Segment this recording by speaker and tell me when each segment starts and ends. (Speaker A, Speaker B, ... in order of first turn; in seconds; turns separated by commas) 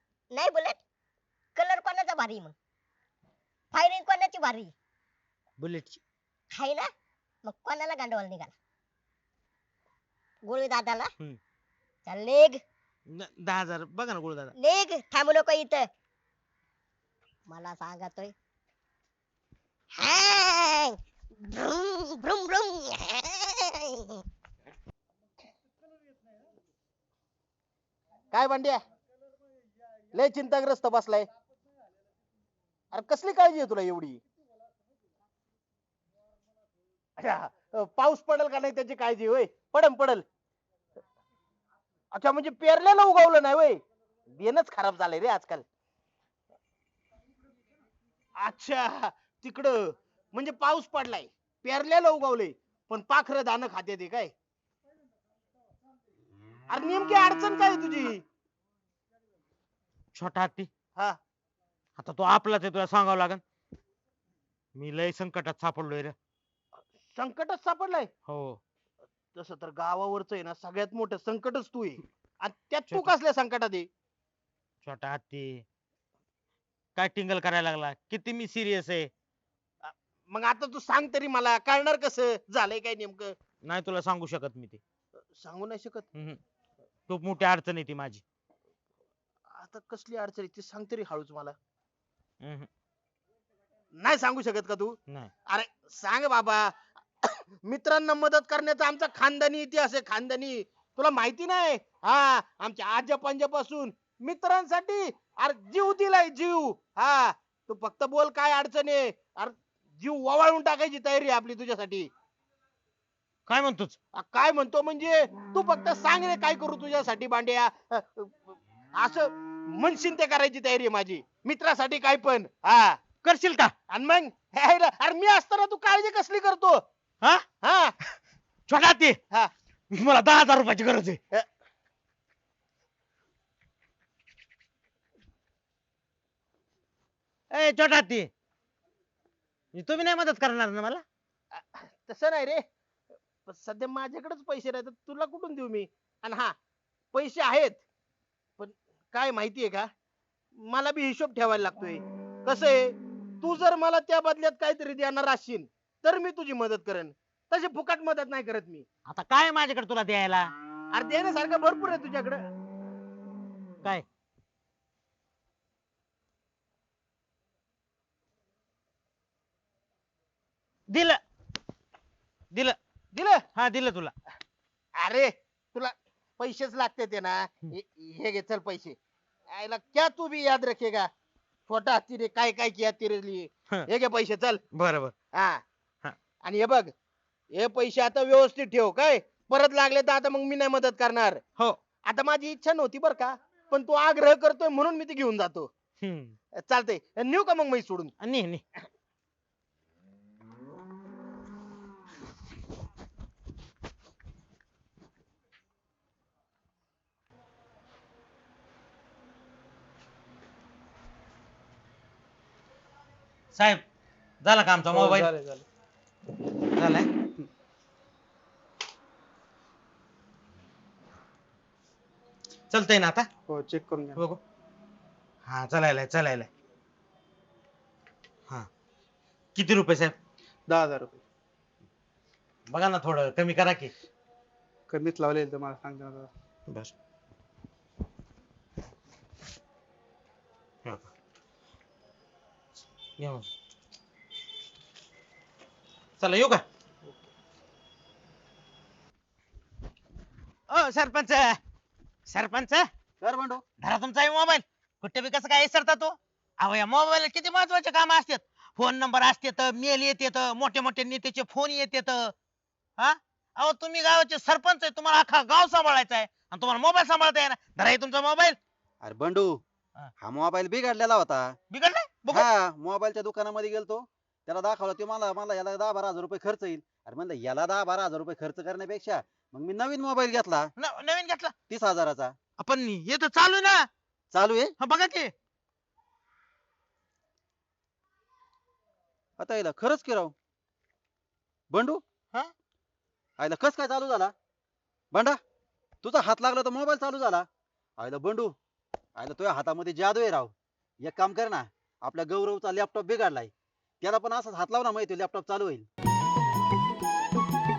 Speaker A: 0.3-0.8, Speaker A: 1.6-2.5, Speaker A: 3.7-4.7, Speaker B: 5.6-6.0, Speaker A: 6.5-6.9, Speaker A: 7.4-8.5, Speaker A: 10.4-11.1, Speaker A: 12.1-12.6, Speaker B: 13.1-14.5, Speaker A: 14.6-15.9, Speaker A: 17.5-18.3, Speaker A: 20.0-24.2, Speaker C: 28.3-28.8, Speaker C: 30.1-31.3, Speaker C: 32.9-34.2, Speaker C: 37.2-40.2, Speaker C: 42.1-43.8, Speaker C: 44.3-45.6, Speaker C: 48.4-54.3, Speaker C: 56.7-58.2, Speaker B: 60.1-60.7, Speaker B: 62.0-63.4, Speaker B: 64.8-66.2, Speaker C: 67.0-68.1, Speaker B: 68.3-68.6, Speaker C: 69.4-73.9, Speaker B: 72.9-73.1, Speaker B: 74.8-75.6, Speaker B: 77.0-79.1, Speaker C: 79.8-83.3, Speaker B: 83.6-84.8, Speaker C: 85.4-86.1, Speaker B: 87.1-88.2, Speaker C: 89.5-91.6, Speaker B: 92.4-92.7, Speaker C: 94.0-95.0, Speaker C: 95.5-112.1, Speaker B: 113.5-114.0, Speaker C: 114.1-118.4, Speaker C: 118.9-123.0, Speaker B: 123.2-123.7, Speaker C: 123.9-126.8, Speaker C: 127.6-127.9, Speaker B: 128.7-129.2, Speaker B: 129.9-131.2, Speaker B: 137.5-138.3, Speaker B: 139.7-141.0, Speaker C: 141.5-142.6, Speaker C: 143.5-146.5, Speaker C: 147.1-147.8, Speaker C: 148.6-149.9, Speaker C: 150.6-158.8, Speaker B: 159.1-160.5, Speaker C: 160.9-162.4, Speaker B: 170.9-171.2, Speaker B: 172.5-172.8, Speaker C: 173.1-173.4, Speaker B: 173.5-174.1, Speaker C: 174.9-179.0, Speaker C: 179.5-181.1, Speaker C: 181.7-184.6, Speaker B: 184.7-185.2, Speaker C: 185.3-185.6, Speaker C: 186.4-186.9, Speaker C: 187.5-191.4, Speaker C: 192.1-195.7, Speaker B: 196.0-196.3, Speaker C: 196.6-198.1, Speaker B: 198.2-198.6, Speaker B: 213.6-213.8, Speaker B: 214.4-215.3, Speaker D: 214.9-215.7, Speaker B: 216.8-217.1, Speaker B: 222.7-223.3, Speaker D: 223.5-224.2, Speaker B: 225.5-226.5, Speaker B: 229.6-230.2, Speaker D: 230.7-231.2, Speaker B: 232.7-233.9, Speaker D: 234.9-236.3, Speaker B: 240.8-241.1, Speaker B: 243.2-243.5, Speaker B: 246.2-246.6, Speaker B: 250.7-251.6, Speaker B: 252.3-252.9, Speaker E: 253.2-253.6, Speaker B: 253.8-262.3, Speaker B: 263.0-268.6, Speaker E: 269.0-269.6, Speaker E: 270.2-271.5, Speaker B: 271.7-272.5, Speaker E: 272.3-280.7, Speaker B: 280.8-281.5, Speaker E: 281.7-282.4, Speaker B: 282.6-283.9, Speaker E: 284.3-284.7, Speaker B: 284.8-285.3, Speaker E: 289.4-290.3, Speaker E: 291.7-292.0, Speaker E: 293.4-294.3, Speaker E: 295.1-295.4, Speaker E: 296.0-297.5, Speaker E: 298.0-298.5, Speaker E: 299.2-305.9